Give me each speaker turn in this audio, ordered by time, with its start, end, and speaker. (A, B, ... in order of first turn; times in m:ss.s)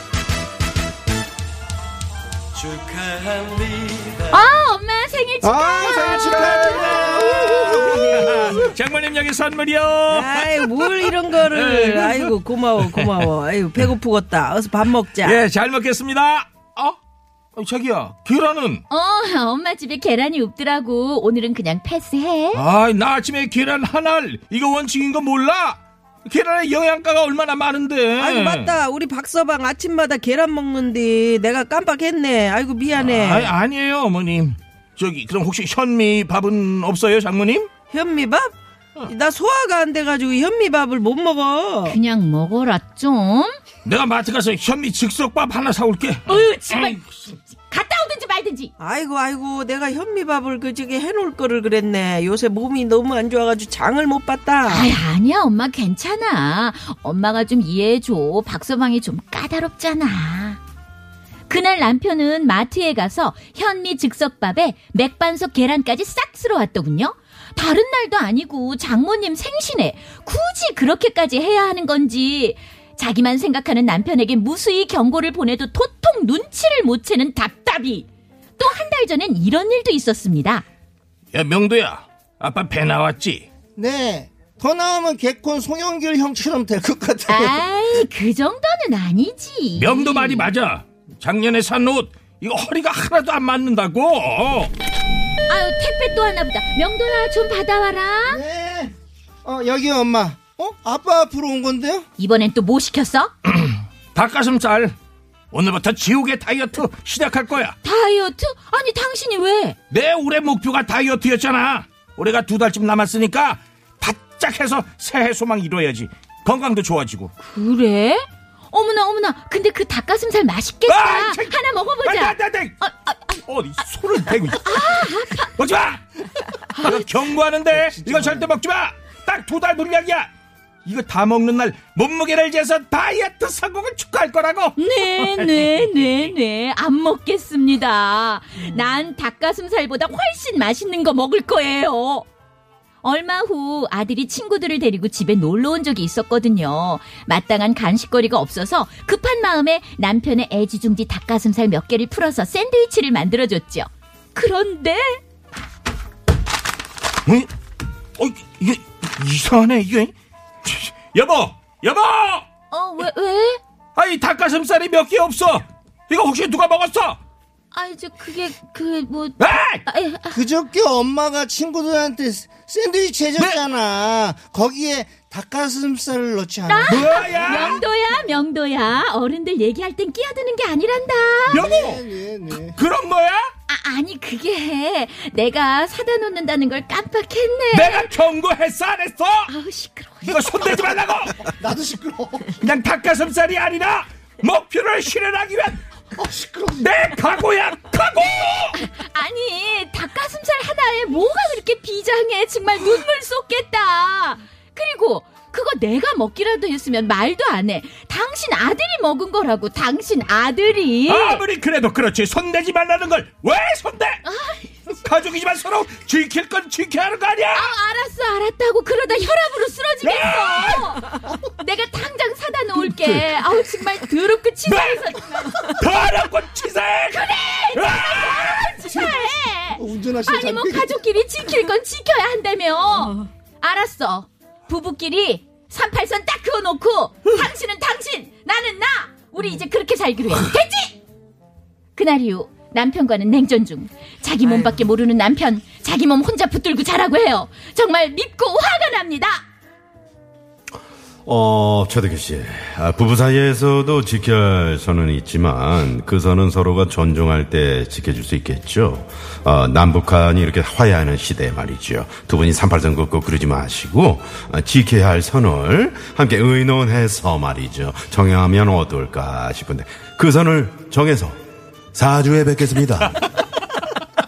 0:04.3-0:07.7 A
0:05.4-0:08.6 B
0:05.9-0:06.3 C
0:06.1-0:13.9 D
0:10.2-0:15.4 B
0:15.1-0:17.0 D
0:17.6-0:18.8 D
0:18.9-0:22.6 A
0:22.5-0:28.8 D
0:28.2-0:28.8 B
0:28.9-0:32.8 E
0:32.9-0:37.7 D
0:33.0-0:33.5 B
0:37.9-0:38.3 E
0:39.3-0:39.6 B
0:39.6-0:41.8 E
0:41.8-0:43.6 A
0:43.8-0:47.0 D
0:46.3-0:48.7 A
0:49.0-0:54.7 E
0:54.6-1:00.6 A
1:01.5-1:18.1 A
1:18.6-1:20.6 A
1:21.3-1:23.4 D
1:23.8-1:27.6 B
1:27.3-1:30.5 A
1:29.8-1:34.7 D
1:35.5-1:38.4 A
1:38.3-1:38.9 B
1:39.4-1:42.0 B
1:42.2-1:43.3 A
1:43.4-1:44.9 D
1:45.5-1:47.8 D
1:47.8-1:49.8 A
1:49.9-1:57.3 D
1:57.4-2:03.4 A
2:00.9-2:02.8 D
2:03.5-2:10.3 D
2:04.5-2:05.6 A
2:07.9-2:08.5 B
2:10.8-2:16.0 D
2:14.8-2:22.2 A
2:23.0-2:35.2 A
2:38.2-2:40.1 D
2:40.6-2:42.4 D
2:42.7-2:43.6 A
2:44.0-2:47.2 D
2:47.7-2:50.4 A
2:49.4-2:49.8 D
2:50.3-2:57.5 B
2:56.7-3:01.7 A
2:56.9-2:57.8 D
3:01.5-3:03.5 D
3:01.5-3:02.8 B
3:03.7-3:08.1 A
3:07.7-3:09.5 D
3:09.5-3:10.4 A
3:10.2-3:11.5 D
3:11.5-3:12.5 B
3:12.5-3:15.8 D
3:16.2-3:16.9 B
3:16.7-3:18.8 D
3:18.7-3:31.4 A
3:31.1-3:34.2 D
3:34.2-3:34.7 A
3:34.9-3:37.7 D
3:37.5-3:46.0 A
3:40.0-3:40.8 D
3:44.6-3:49.1 D
3:47.1-4:01.0 A
3:49.8-3:51.0 B
4:01.9-4:09.4 A
4:04.4-4:04.8 B
4:11.2-4:31.4 C
4:31.9-4:33.3 C